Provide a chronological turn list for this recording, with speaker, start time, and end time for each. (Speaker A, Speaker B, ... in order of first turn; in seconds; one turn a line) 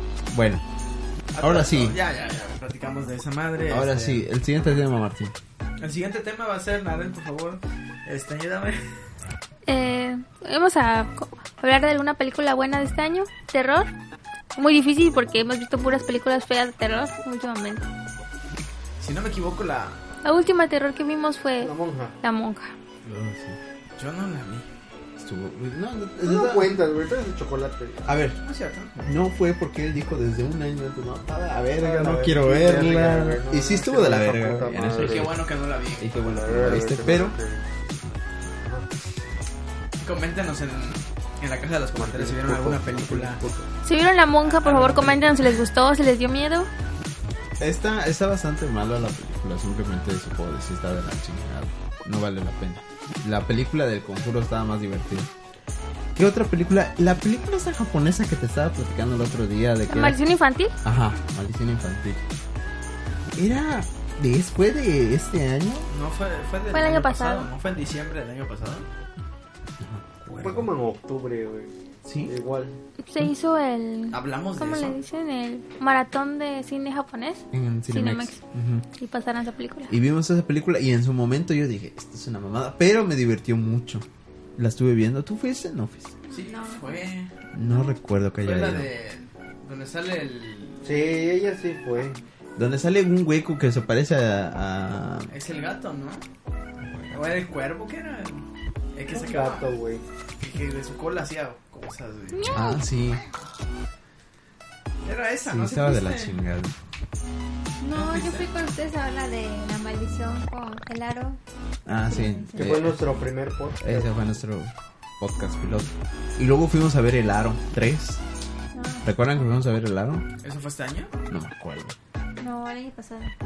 Speaker A: 0.3-0.6
Speaker B: 1.3-4.2
Speaker A: 1.4-1.9
Speaker A: 3.7-5.3
Speaker B: 5.8-8.8
Speaker C: 9.7-13.9
Speaker C: 14.5-17.9
Speaker B: 19.0-20.0
Speaker C: 20.2-22.7
Speaker D: 21.6-22.1
Speaker A: 23.0-23.6
Speaker B: 24.0-24.7
Speaker A: 25.2-26.8
Speaker D: 26.2-28.1
Speaker A: 28.1-28.4
Speaker B: 28.4-28.9
Speaker A: 28.9-35.4
Speaker D: 31.8-35.3
Speaker B: 34.9-36.4
Speaker A: 36.0-37.4
Speaker D: 36.2-37.9
Speaker D: 38.6-38.9
Speaker B: 40.0-43.4
Speaker D: 42.0-42.6
Speaker A: 42.2-43.7
Speaker C: 43.8-46.7
Speaker B: 44.4-45.4
Speaker A: 47.6-55.3
Speaker A: 56.1-60.2
Speaker C: 59.9-60.7
Speaker A: 60.8-62.2
Speaker A: 63.3-65.9
Speaker B: 65.9-68.9
Speaker C: 66.7-67.5
Speaker A: 69.8-70.7
Speaker D: 70.4-71.7
Speaker A: 72.0-72.3
Speaker D: 72.2-72.8
Speaker C: 73.0-78.4
Speaker B: 74.1-75.0
Speaker A: 77.5-78.8
Speaker C: 79.0-79.9
Speaker A: 79.9-84.0
Speaker A: 84.5-86.1
Speaker E: 86.2-87.0
Speaker B: 86.3-87.3
Speaker A: 87.5-88.9
Speaker B: 88.4-90.9
Speaker D: 90.8-92.2
Speaker A: 92.6-95.3
Speaker B: 95.3-96.2
Speaker A: 96.8-97.4
Speaker B: 97.1-99.7
Speaker D: 99.1-100.0
Speaker B: 100.4-102.6
Speaker C: 102.3-102.8
Speaker A: 102.5-103.2
Speaker B: 105.0-106.4
Speaker A: 105.5-106.7
Speaker E: 107.8-111.4
Speaker B: 107.9-108.5
Speaker A: 111.8-113.0
Speaker E: 112.1-112.9
Speaker D: 112.5-114.1
Speaker A: 113.8-118.2
Speaker E: 118.7-119.1
Speaker A: 119.0-120.2
Speaker B: 120.4-121.1
Speaker A: 121.3-121.9
Speaker E: 122.4-123.3